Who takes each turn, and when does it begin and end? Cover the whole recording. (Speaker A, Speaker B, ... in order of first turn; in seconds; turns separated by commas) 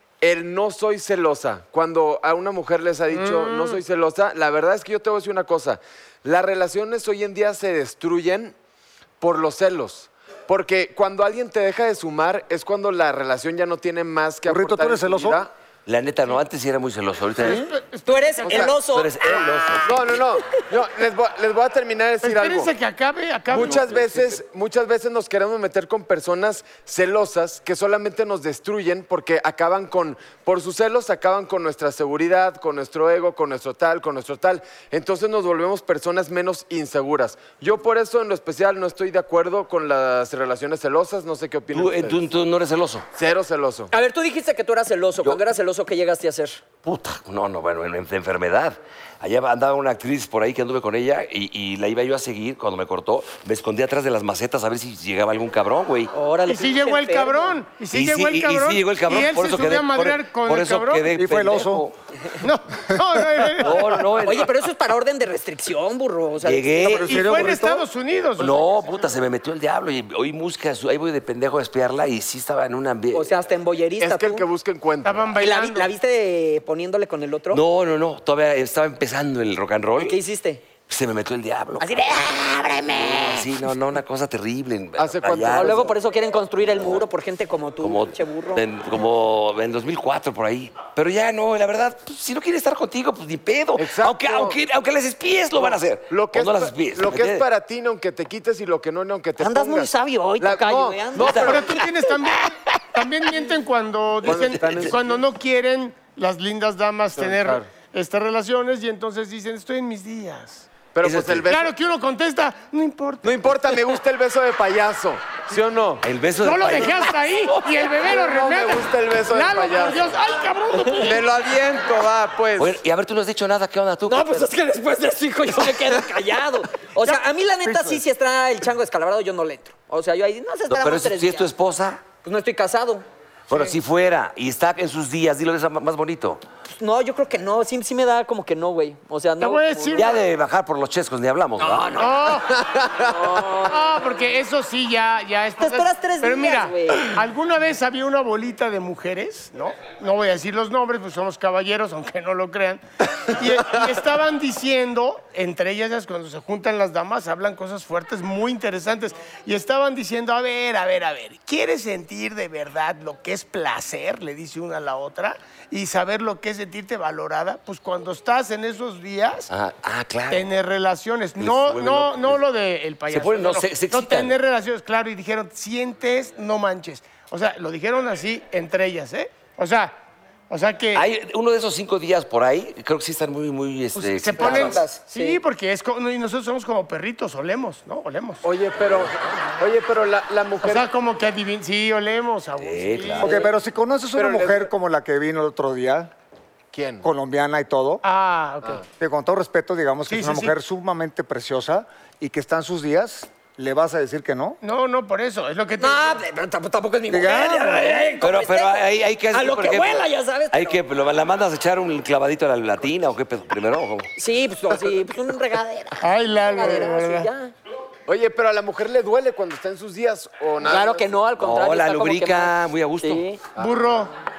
Speaker A: 0.2-8.5, Speaker B: 3.1-3.8, Speaker A: 9.2-15.5, Speaker C: 14.5-15.4, Speaker D: 15.9-17.7, Speaker B: 17.4-18.7, Speaker E: 18.1-19.4, Speaker D: 18.8-20.2, Speaker A: 19.9-22.7, Speaker B: 22.2-24.0, Speaker A: 23.5-42.2, Speaker D: 41.7-43.0, Speaker A: 43.1-43.9, Speaker E: 43.9-46.6, Speaker D: 46.9-56.1, Speaker E: 56.1-57.6, Speaker B: 56.5-61.1, Speaker D: 57.9-61.9, Speaker C: 61.2-61.9, Speaker B: 62.4-64.2, Speaker D: 63.6-64.5, Speaker E: 64.2-67.1, Speaker D: 66.4-67.5, Speaker B: 67.0-69.0, Speaker C: 67.0-67.8, Speaker D: 68.4-73.3, Speaker E: 73.1-74.5, Speaker A: 74.0-75.3, Speaker B: 75.0-75.9, Speaker E: 75.4-77.6, Speaker D: 77.5-80.2, Speaker E: 80.0-80.6, Speaker D: 80.9-81.9, Speaker E: 81.8-83.5, Speaker D: 83.0-85.9, Speaker A: 85.0-86.0, Speaker E: 85.5-88.6, Speaker D: 87.8-97.5, Speaker A: 93.8-94.6, Speaker A: 96.1-101.7, Speaker E: 99.4-101.8, Speaker D: 101.2-101.6, Speaker B: 101.4-110.7, Speaker D: 104.2-104.9, Speaker A: 104.2-105.2, Speaker A: 107.2-107.7, Speaker A: 110.9-111.7, Speaker D: 111.0-111.5, Speaker B: 111.5-113.5, Speaker A: 113.2-116.0, Speaker D: 116.0-118.0, Speaker B: 116.4-121.2, Speaker A: 118.0-120.2, Speaker A: 121.0-122.8, Speaker D: 122.6-124.5, Speaker E: 124.1-131.5, Speaker C: 127.7-128.0, Speaker D: 130.7-132.0, Speaker E: 132.2-133.1, Speaker D: 133.5-136.4, Speaker E: 136.8-140.1, Speaker B: 139.4-140.2, Speaker D: 139.9-142.1, Speaker E: 141.6-142.3, Speaker B: 142.0-142.5, Speaker A: 142.5-143.1, Speaker E: 143.1-144.0, Speaker B: 143.7-169.5, Speaker E: 145.6-147.1, Speaker D: 169.5-170.5, Speaker B: 170.3-180.0, Speaker D: 171.4-172.4, Speaker D: 173.1-174.4, Speaker B: 180.5-181.1, Speaker D: 180.9-184.8, Speaker B: 184.0-188.4, Speaker E: 184.4-185.4, Speaker A: 188.4-190.9, Speaker B: 190.6-193.4, Speaker D: 192.6-193.4, Speaker C: 193.2-196.1, Speaker A: 194.2-194.7, Speaker A: 196.7-197.1, Speaker C: 197.0-198.0, Speaker B: 198.0-198.8, Speaker C: 199.0-204.6, Speaker B: 200.1-200.6, Speaker B: 204.6-206.2, Speaker E: 205.8-210.8, Speaker C: 207.1-207.9, Speaker D: 208.2-214.1, Speaker E: 214.2-217.5, Speaker B: 216.0-217.3, Speaker A: 218.1-221.1, Speaker E: 220.7-223.4, Speaker D: 221.4-223.2, Speaker A: 223.6-224.0, Speaker B: 223.6-224.1